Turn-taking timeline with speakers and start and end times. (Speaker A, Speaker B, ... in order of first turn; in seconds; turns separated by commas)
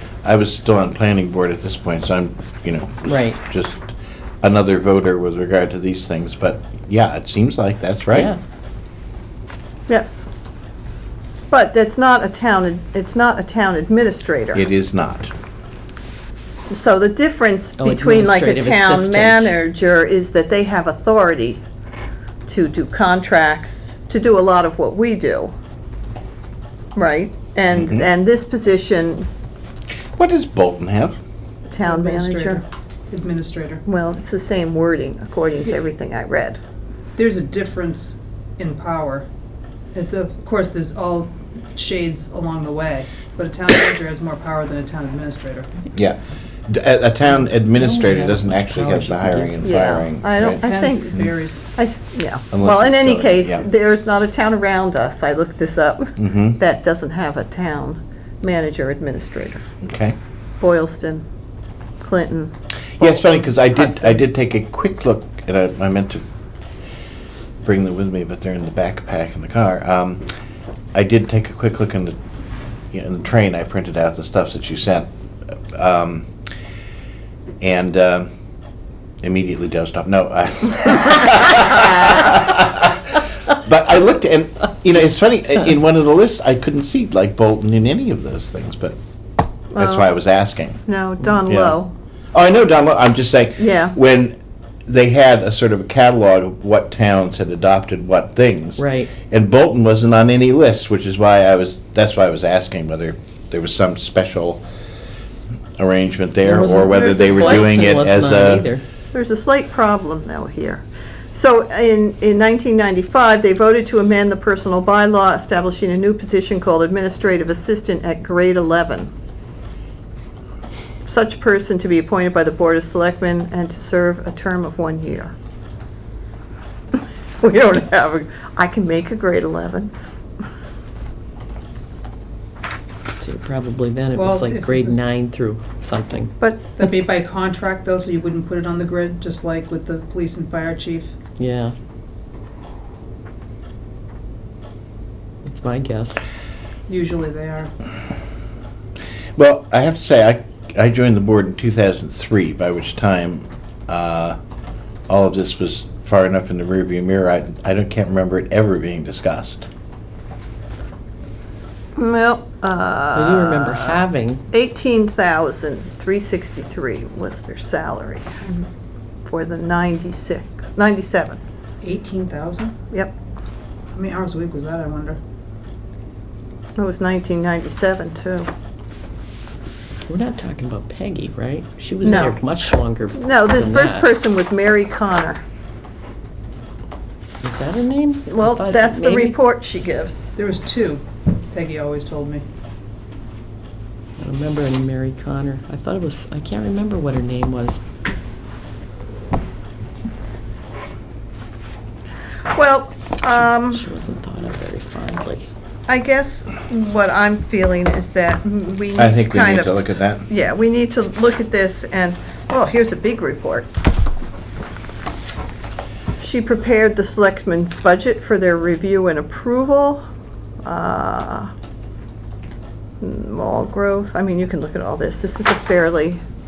Speaker A: 0.2-8.3, Speaker B: 3.0-3.4, Speaker B: 8.1-8.4, Speaker C: 9.9-10.3, Speaker C: 11.5-14.6, Speaker A: 14.5-15.3, Speaker C: 16.7-21.6, Speaker B: 17.8-19.6, Speaker C: 22.4-25.5, Speaker C: 26.9-29.3, Speaker A: 27.7-28.1, Speaker A: 30.1-31.2, Speaker C: 31.7-32.6, Speaker D: 31.8-33.8, Speaker C: 33.9-36.6, Speaker D: 37.2-39.3, Speaker D: 39.9-45.7, Speaker A: 45.9-51.3, Speaker B: 47.4-49.8, Speaker C: 49.6-51.2, Speaker D: 50.6-51.6, Speaker C: 51.8-59.6, Speaker A: 52.5-53.6, Speaker A: 56.2-56.6, Speaker A: 59.8-60.2, Speaker C: 60.6-61.3, Speaker C: 62.0-64.2, Speaker A: 63.0-66.2, Speaker A: 67.6-70.2, Speaker A: 70.9-72.2, Speaker A: 72.9-75.1, Speaker A: 75.7-76.3, Speaker A: 77.6-78.3, Speaker A: 79.2-89.0, Speaker C: 89.7-90.1, Speaker A: 89.8-90.8, Speaker C: 90.8-91.9, Speaker A: 91.5-91.7, Speaker A: 92.3-104.6, Speaker C: 93.6-94.0, Speaker B: 98.8-99.2, Speaker A: 105.8-108.7, Speaker B: 106.4-108.8, Speaker C: 106.9-107.9, Speaker C: 109.1-119.1, Speaker C: 121.0-125.3, Speaker C: 127.4-129.9, Speaker B: 133.2-136.3, Speaker D: 134.1-135.0, Speaker C: 136.4-136.7, Speaker D: 136.8-141.2, Speaker B: 141.4-141.8, Speaker B: 145.4-146.2, Speaker D: 146.9-147.7, Speaker A: 149.3-154.4, Speaker A: 155.1-159.7, Speaker C: 161.9-168.7, Speaker B: 163.1-164.4, Speaker C: 169.2-171.4, Speaker D: 171.8-172.8, Speaker D: 173.9-175.2, Speaker C: 176.8-178.5, Speaker B: 180.1-184.1, Speaker C: 182.0-185.4, Speaker B: 187.4-189.4, Speaker C: 188.3-190.3, Speaker D: 190.3-192.4, Speaker B: 194.2-197.8, Speaker C: 202.5-203.8, Speaker B: 203.2-205.5, Speaker C: 205.9-213.7, Speaker A: 209.0-210.3, Speaker C: 216.2-220.0, Speaker C: 220.6-221.5, Speaker C: 223.0-226.2